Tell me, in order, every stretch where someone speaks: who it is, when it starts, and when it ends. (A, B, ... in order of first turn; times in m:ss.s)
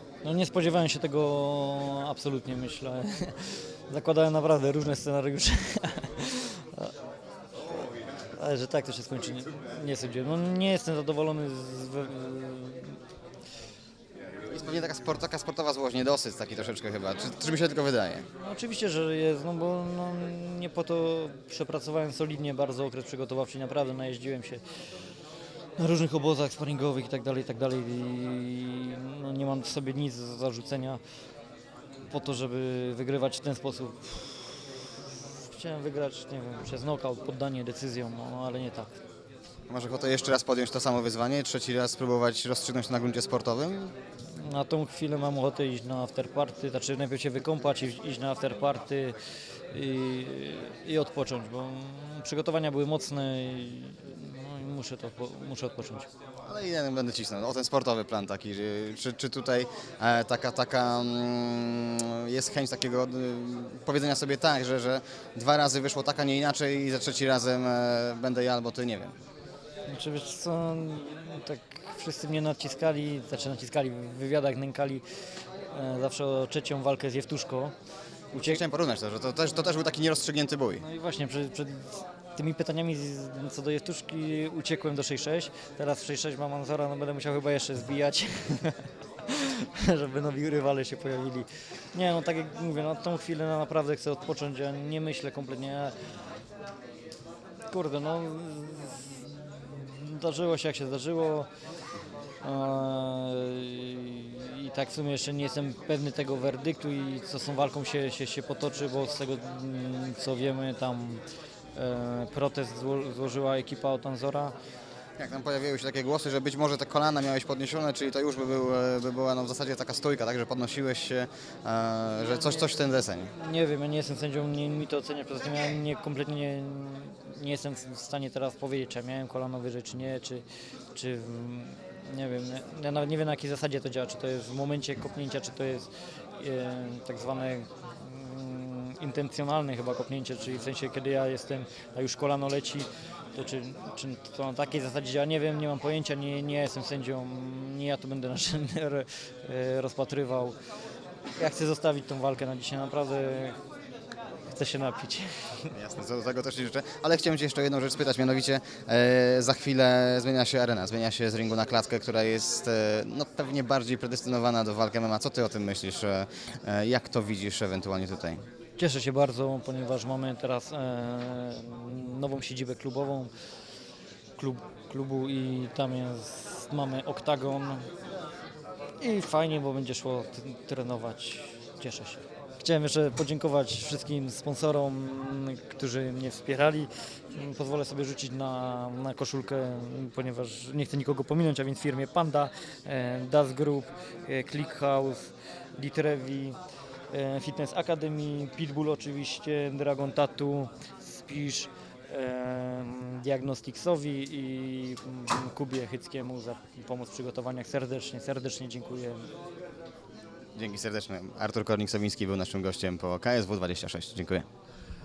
0:00.2-0:06.9 A
0:08.3-0:13.0 A
0:14.5-0:18.3 B
0:18.4-0:24.6 A
0:25.8-0:31.0 A
0:32.1-0:38.9 A
0:39.7-0:44.0 B
0:44.3-0:49.2 A
0:49.7-0:56.1 A
0:56.5-1:09.2 B
1:09.9-1:15.0 A
1:15.7-1:17.7 A
1:18.3-1:18.6 A
1:18.3-1:20.9 B
1:20.8-1:36.0 A
1:37.7-1:41.5 A
1:42.4-1:51.2 A
1:51.8-1:54.5 A
1:55.2-2:03.3 B
2:02.2-2:02.7 A
2:03.3-2:30.6 A
2:31.4-2:33.6 A
2:34.5-2:35.8 A
2:35.7-2:48.4 B
2:48.8-2:53.3 A
2:54.4-2:57.9 A
2:59.0-3:16.6 A
3:17.1-3:29.3 A
3:30.6-3:34.5 B